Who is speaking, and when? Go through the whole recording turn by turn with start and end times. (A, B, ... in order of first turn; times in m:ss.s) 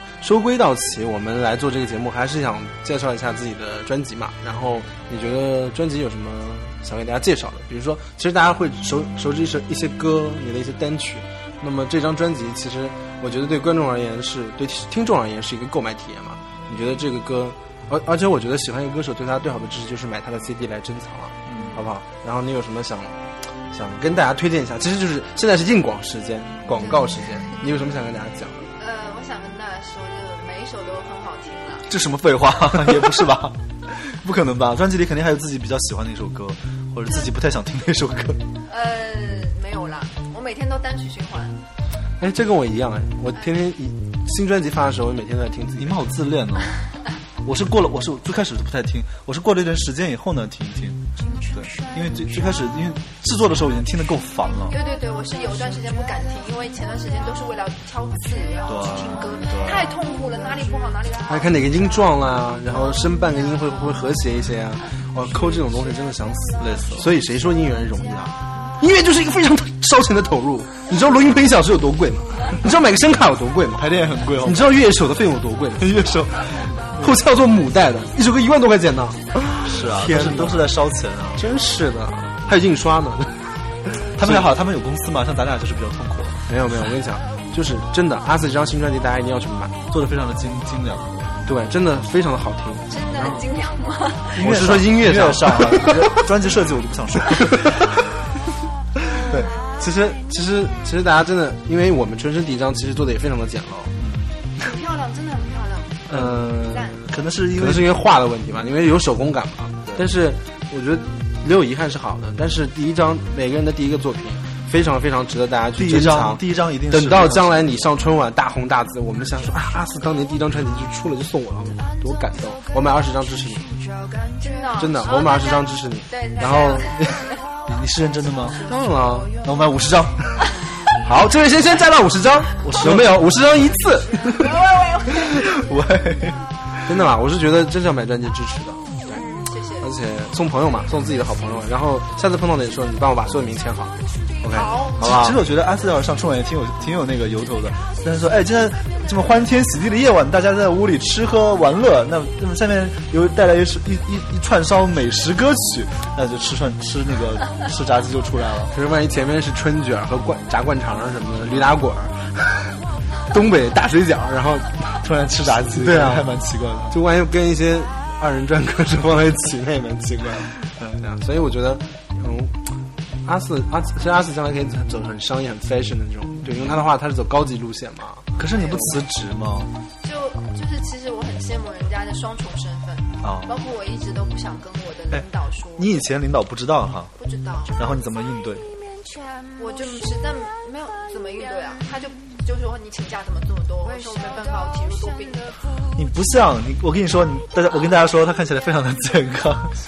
0:00.2-0:28.7 A
0:21.5-0:21.8 B
0:28.8-0:31.9 C
0:31.9-0:38.4 B
0:38.7-0:41.6 C
0:42.2-0:46.0 A
0:45.8-0:46.7 B
0:47.4-0:54.8 B
0:54.7-1:01.5 C
0:58.7-0:59.9 B
1:01.3-1:16.2 A
1:06.6-1:07.1 B
1:13.7-1:14.8 B
1:15.8-1:17.1 B
1:16.9-1:20.7 A
1:19.6-1:21.5 B
1:21.4-1:24.5 A
1:24.2-1:26.4 B
1:26.5-1:29.8 A
1:29.9-1:31.4 B
1:31.4-1:33.5 A
1:32.9-1:34.4 C
1:34.3-1:36.2 A
1:34.4-1:38.0 B
1:39.3-1:43.9 A
1:44.0-1:44.3 B
1:44.6-1:46.1 C
1:46.1-2:03.7 A
1:46.1-1:46.4 B
1:46.6-1:47.0 C
1:47.1-1:47.9 B
1:55.8-1:57.6 B
2:04.4-2:07.2 C
2:04.7-2:07.2 A
2:07.7-2:08.6 B
2:08.6-2:09.4 A
2:09.4-2:10.3 B
2:11.0-2:14.6 A
2:12.6-2:13.2 B
2:14.3-2:15.4 C
2:15.2-2:16.4 B
2:16.9-2:19.3 A
2:19.1-2:19.9 C
2:19.8-2:25.4 A
2:24.5-2:25.0 C
2:25.0-2:38.7 B
2:38.7-2:45.0 A
2:45.0-2:47.0 B
2:45.7-2:46.3 A
2:46.9-2:58.3 A
2:56.4-2:56.8 B
2:58.4-2:59.7 B
3:00.0-3:05.9 C
3:03.2-3:03.6 B
3:05.1-3:07.1 B
3:07.2-3:07.8 C
3:07.7-3:08.7 B
3:09.6-3:15.6 C
3:15.9-3:19.8 B